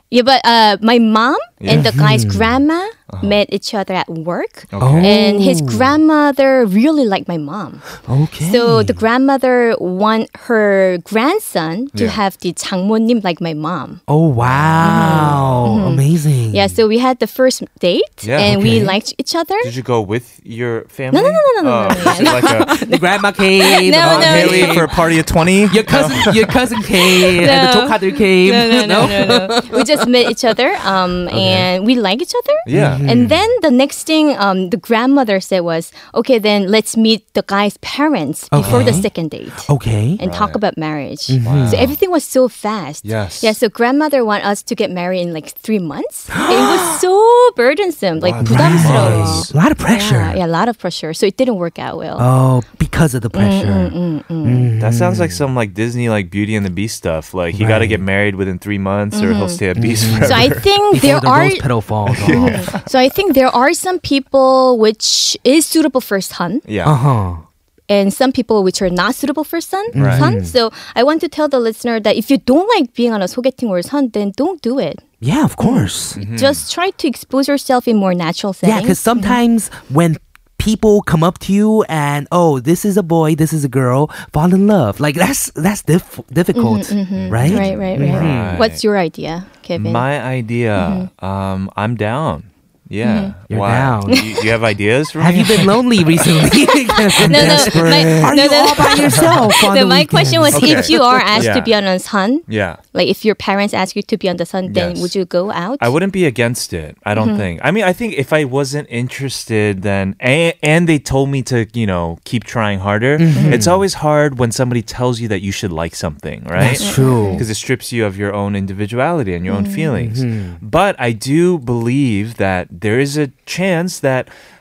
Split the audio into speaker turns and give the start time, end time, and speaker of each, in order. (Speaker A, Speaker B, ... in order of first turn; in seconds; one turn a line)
Speaker A: 0.1-7.8
Speaker B: 1.6-1.9
Speaker C: 1.7-2.6
Speaker B: 3.1-3.4
Speaker B: 4.7-5.1
Speaker C: 4.8-6.0
Speaker C: 8.1-9.0
Speaker A: 8.4-14.0
Speaker B: 11.9-12.2
Speaker C: 14.1-16.8
Speaker B: 14.4-15.7
Speaker A: 14.8-19.7
Speaker B: 18.2-18.6
Speaker C: 18.4-18.9
Speaker B: 19.6-22.7
Speaker A: 21.1-23.0
Speaker C: 21.9-30.5
Speaker A: 23.6-24.9
Speaker B: 24.0-26.5
Speaker A: 27.1-52.3
Speaker C: 31.3-31.7
Speaker B: 32.6-33.0
Speaker C: 32.7-33.4
Speaker C: 38.5-39.1
Speaker B: 38.6-39.0
Speaker C: 39.6-40.2
Speaker B: 40.2-40.6
Speaker C: 41.3-41.9
Speaker B: 41.4-41.9
Speaker B: 43.0-43.5
Speaker C: 46.3-47.0
Speaker B: 48.2-49.5
Speaker C: 48.4-50.4
Speaker C: 52.2-55.4
Speaker A: 53.3-54.7
Speaker B: 54.8-60.6
Speaker C: 57.5-58.0
Speaker A: 59.1-59.6
Speaker C: 59.8-62.7
Speaker A: 60.2-61.7
Speaker B: 62.1-62.9
Speaker A: 62.3-66.6
Speaker B: 66.7-67.0
Speaker C: 66.8-67.4
Speaker A: 67.9-75.0
Speaker C: 69.9-70.5
Speaker B: 70.0-70.2
Speaker C: 75.2-76.2
Speaker A: 75.6-79.4
Speaker B: 76.2-76.6
Speaker C: 78.6-88.6
Speaker A: 86.5-90.0
Speaker B: 87.2-88.8
Speaker B: 89.8-96.3
Speaker A: 90.8-91.1
Speaker A: 93.0-93.3
Speaker C: 93.5-94.2
Speaker A: 94.1-94.4
Speaker C: 95.2-101.5
Speaker A: 96.6-105.9
Speaker B: 97.2-98.4
Speaker B: 100.5-101.7
Speaker B: 102.5-102.8
Speaker B: 104.7-105.1
Speaker B: 105.8-124.3
Speaker A: 107.2-107.5
Speaker C: 113.2-113.8
Speaker A: 113.3-113.7
Speaker C: 116.5-117.5
Speaker A: 116.8-117.4
Speaker A: 119.5-119.9
Speaker C: 120.0-120.6